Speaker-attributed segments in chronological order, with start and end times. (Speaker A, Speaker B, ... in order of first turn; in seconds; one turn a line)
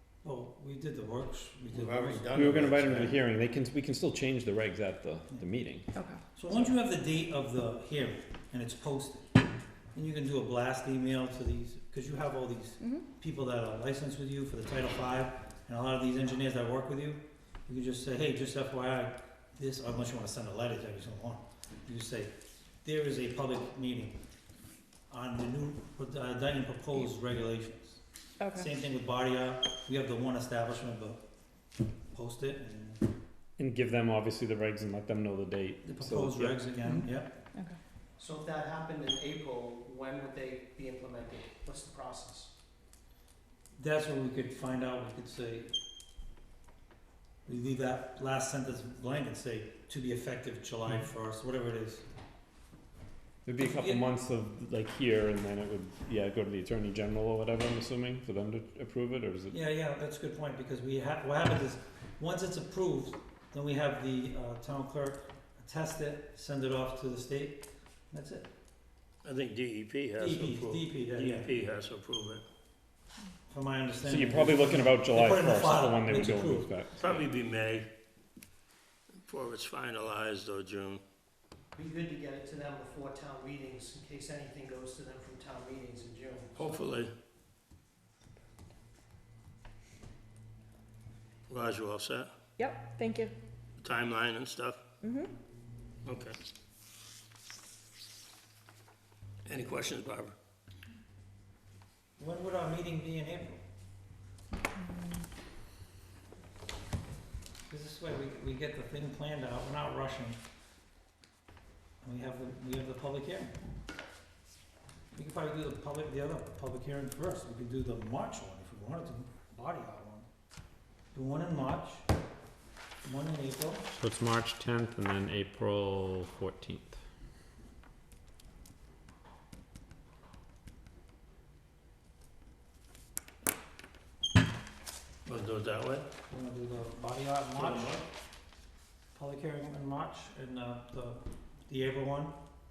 Speaker A: 0.2-2.7
Speaker B: 1.7-3.2
Speaker C: 2.3-5.9
Speaker D: 5.9-6.2
Speaker A: 6.3-9.3
Speaker A: 9.9-22.3
Speaker D: 12.8-13.0
Speaker A: 22.8-24.2
Speaker A: 25.1-28.0
Speaker D: 28.4-28.7
Speaker A: 28.5-31.2
Speaker A: 32.1-33.0
Speaker C: 33.6-37.1
Speaker A: 35.8-37.3
Speaker E: 38.2-42.5
Speaker A: 43.8-45.7
Speaker A: 47.5-52.0
Speaker C: 53.4-59.5
Speaker A: 53.6-54.0
Speaker A: 59.5-68.5
Speaker B: 69.2-72.4
Speaker A: 70.2-71.5
Speaker A: 73.5-76.7
Speaker C: 74.0-77.2
Speaker B: 77.0-77.9
Speaker B: 79.2-81.0
Speaker E: 81.7-86.8
Speaker B: 86.5-87.1
Speaker B: 91.5-92.3
Speaker D: 92.6-93.3
Speaker B: 93.8-94.8
Speaker D: 95.0-95.3
Speaker B: 96.0-96.4
Speaker B: 99.4-100.3
Speaker A: 102.2-103.6
Speaker A: 107.7-110.4
Speaker A: 112.0-113.5
Speaker A: 115.1-120.3
Speaker A: 121.1-122.0
Speaker A: 123.0-123.8
Speaker C: 123.9-127.0
Speaker B: 135.2-136.1
Speaker A: 136.3-138.0
Speaker B: 137.6-138.0
Speaker A: 139.1-142.3